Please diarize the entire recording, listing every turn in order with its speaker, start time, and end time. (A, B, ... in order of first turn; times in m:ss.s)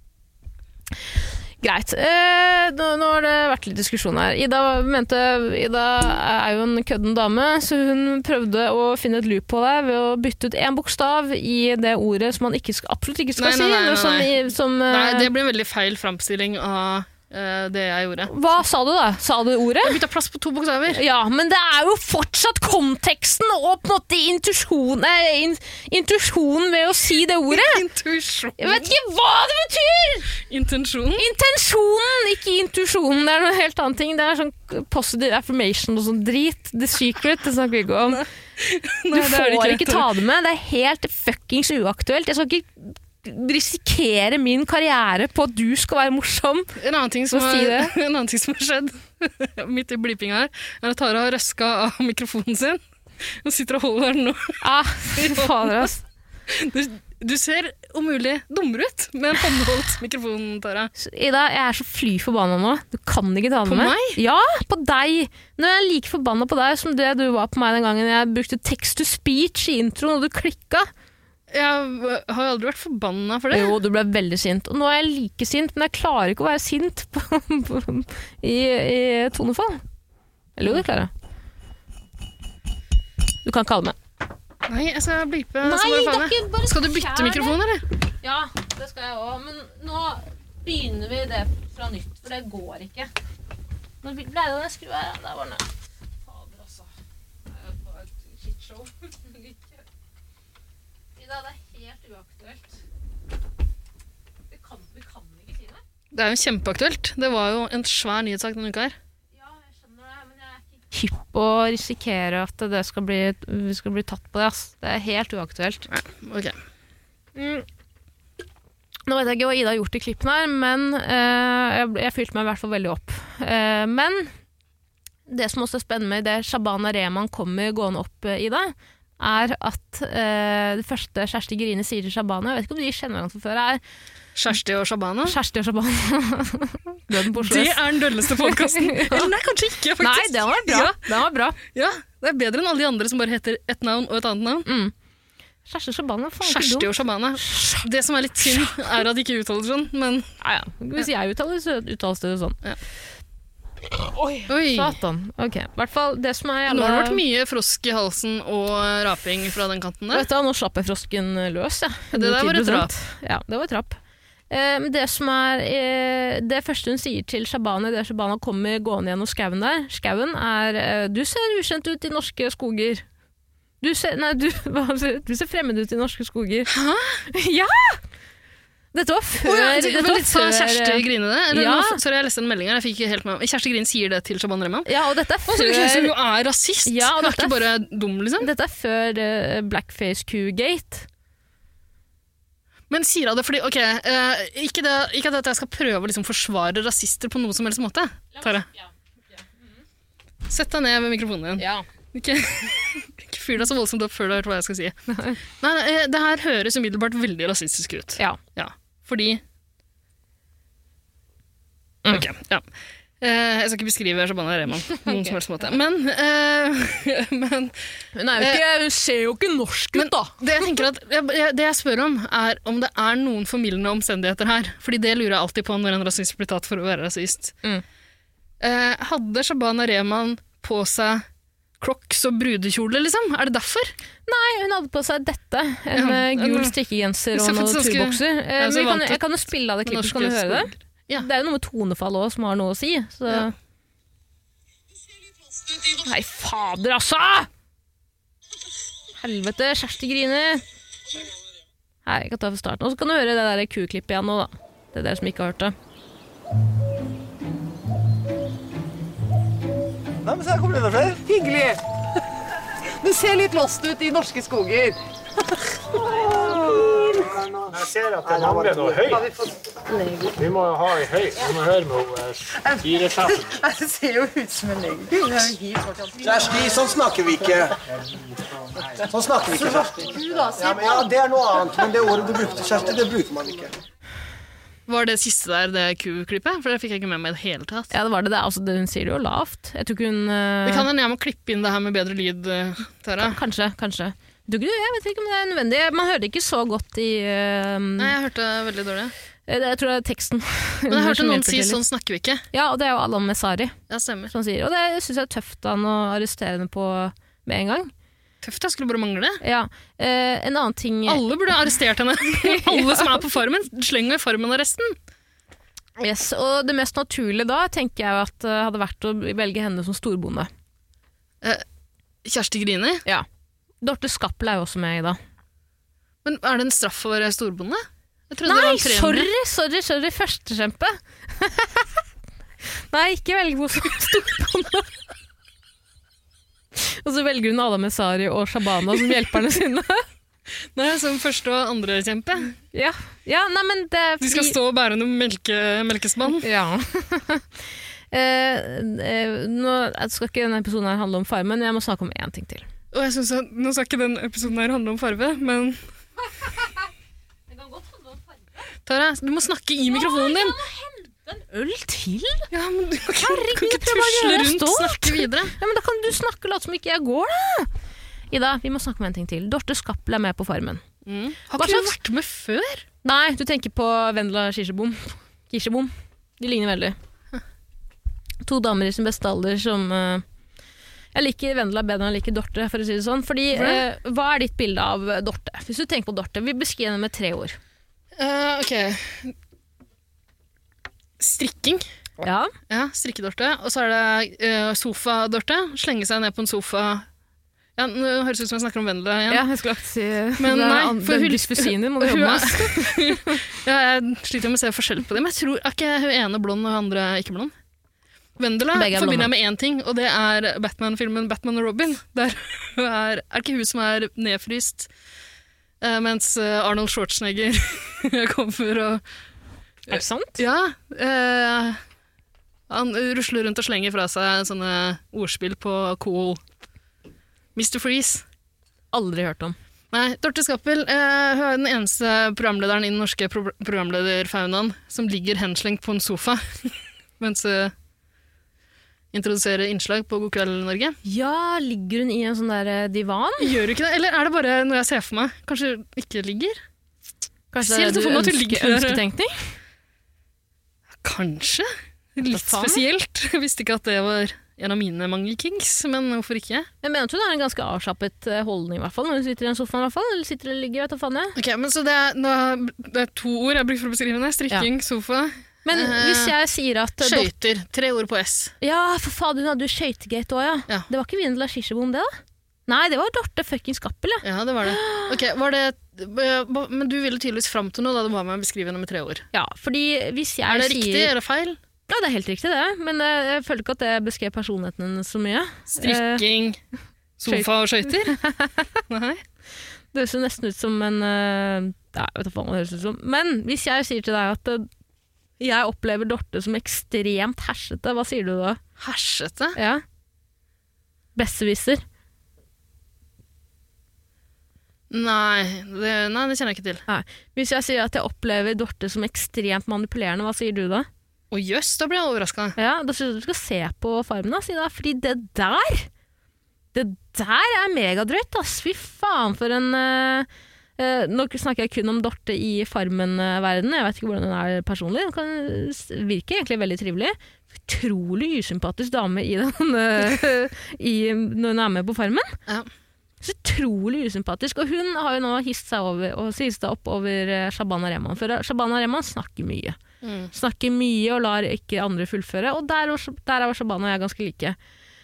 0:01.6-0:15.3 A
0:13.4-0:14.4 B
0:14.9-0:18.3 B
0:18.3-0:20.0 A
0:19.8-0:21.0 B
0:20.9-0:27.8 A
0:27.5-0:28.9 B
0:28.6-0:30.3 A
0:30.5-0:31.2 B
0:31.2-0:38.2 A
0:38.2-0:40.1 B
0:39.1-0:46.7 A
0:46.8-0:54.6 B
0:47.3-0:47.9 A
0:54.6-0:56.0 A
0:55.1-0:55.9 B
0:56.5-1:00.9 B
1:01.0-1:10.9 A
1:03.6-1:04.2 B
1:11.5-1:13.8 B
1:13.5-1:19.8 A
1:20.6-1:21.1 A
1:23.4-1:24.0 A
1:24.7-1:27.8 B
1:25.6-1:27.6 A
1:28.2-1:33.1 A
1:34.0-1:35.6 A
1:36.2-1:36.9 A
1:37.5-1:39.8 A
1:41.2-1:42.8 A
1:44.5-1:45.8 A
1:46.1-1:49.0 B
1:49.3-1:55.8 A
1:55.9-1:56.6 B
1:57.4-1:57.6 A
1:59.1-2:04.3 A
2:05.3-2:13.8 A
2:14.3-2:15.4 B
2:15.2-2:19.3 A
2:17.3-2:21.1 B
2:20.0-2:21.6 A
2:21.6-2:24.7 B
2:24.6-2:24.9 A
2:25.6-2:26.9 A
2:26.4-2:30.3 B
2:27.4-2:27.8 A
2:28.4-2:28.9 A
2:30.4-2:32.6 A
2:34.2-2:37.2 A
2:34.5-2:35.0 B
2:36.7-2:40.3 B
2:40.1-2:44.0 A
2:42.1-2:42.9 B
2:44.5-2:53.0 A
2:53.8-2:56.7 A
2:56.7-2:57.2 B
2:57.3-2:58.0 A
2:58.9-3:02.0 A
2:59.4-3:04.9 B
3:04.8-3:06.1 A
3:05.4-3:08.5 B
3:06.8-3:07.6 A
3:08.4-3:11.1 A
3:12.9-3:18.7 B
3:18.3-3:19.4 A
3:20.5-3:25.0 B
3:21.6-3:21.8 A
3:25.5-3:29.4 B
3:32.1-3:32.6 B
3:33.2-3:37.7 B
3:34.9-3:35.3 A
3:38.1-3:40.8 A
3:39.9-3:47.5 B
3:48.6-3:51.2 B
3:51.8-3:53.9 B
3:54.3-4:03.5 A
3:55.9-3:56.7 B
3:57.3-4:01.3 B
4:06.0-4:07.5 A
4:09.2-4:10.6 A
4:12.0-4:15.7 A
4:20.2-4:21.2 C
4:21.2-4:21.8 D
4:23.0-4:25.0 D
4:26.2-4:27.0 D
4:27.3-4:29.3 E
4:29.0-4:30.4 D
4:30.4-4:33.6 E
4:32.6-4:36.5 D
4:36.2-4:37.8 C
4:39.0-4:43.7 C
4:39.7-4:40.9 D
4:44.9-4:47.9 B
4:47.9-4:50.9 A
4:50.6-4:53.4 B
4:53.2-4:58.1 A
4:58.0-4:59.1 B
4:59.5-5:01.8 A
5:00.9-5:02.4 B
5:02.5-5:03.7 A
5:03.9-5:04.3 B
5:04.3-5:07.9 A
5:08.4-5:09.4 B
5:09.4-5:11.2 A
5:11.1-5:15.0 B
5:12.4-5:13.1 A
5:16.0-5:20.5 A
5:22.2-5:23.0 B
5:23.8-5:25.2 A
5:26.2-5:29.3 B
5:28.4-5:31.9 A
5:32.9-5:34.9 A
5:36.8-5:40.0 A
5:40.7-5:42.6 B
5:42.7-5:44.6 A
5:44.2-5:46.4 B
5:46.4-5:52.6 A
5:52.9-5:55.8 B
5:57.5-5:58.4 A
5:58.8-6:00.6 B
5:59.9-6:02.5 A
6:02.5-6:05.6 B
6:03.2-6:07.7 A
6:08.3-6:10.8 A
6:11.0-6:12.8 B
6:11.6-6:12.0 A
6:13.0-6:17.0 A
6:18.4-6:20.2 A
6:21.1-6:27.6 A
6:23.5-6:23.8 B
6:28.2-6:29.3 B
6:31.2-6:31.8 B
6:32.2-6:32.5 A
6:32.7-6:37.0 B
6:37.8-6:39.4 B
6:39.3-6:43.4 A
6:40.4-6:47.5 B
6:48.4-6:54.9 B
6:48.7-6:49.3 A
6:55.8-6:59.0 B
6:59.9-7:00.4 A
6:59.9-7:01.8 B
7:02.7-7:06.4 B
7:07.6-7:08.2 B
7:08.9-7:09.6 A
7:09.9-7:17.7 B
7:19.1-7:21.0 B
7:21.0-7:23.5 A
7:23.4-7:26.6 B
7:27.5-7:29.3 A
7:27.6-7:29.0 B
7:31.0-7:36.7 B
7:32.2-7:32.8 A
7:36.8-7:41.3 A
7:41.4-7:46.3 B
7:45.6-7:47.3 A
7:47.0-7:48.5 B
7:48.6-7:52.1 A
7:52.7-7:55.2 A
7:54.2-7:59.2 B
7:59.3-8:01.1 A
8:00.5-8:01.6 B
8:01.9-8:06.2 A
8:05.8-8:06.6 B
8:07.2-8:08.1 B
8:07.3-8:08.8 A
8:08.9-8:09.2 B
8:09.9-8:14.7 A
8:15.4-8:18.6 A
8:18.8-8:19.6 B
8:19.5-8:19.8 A
8:21.2-8:21.8 A
8:24.9-8:26.8 B
8:26.9-8:30.9 A
8:31.3-8:32.6 B
8:32.6-8:35.9 A
8:36.7-8:40.3 A
8:40.8-8:52.3 A
8:53.2-8:59.8 A
9:00.0-9:00.3 B
9:00.3-9:04.6 A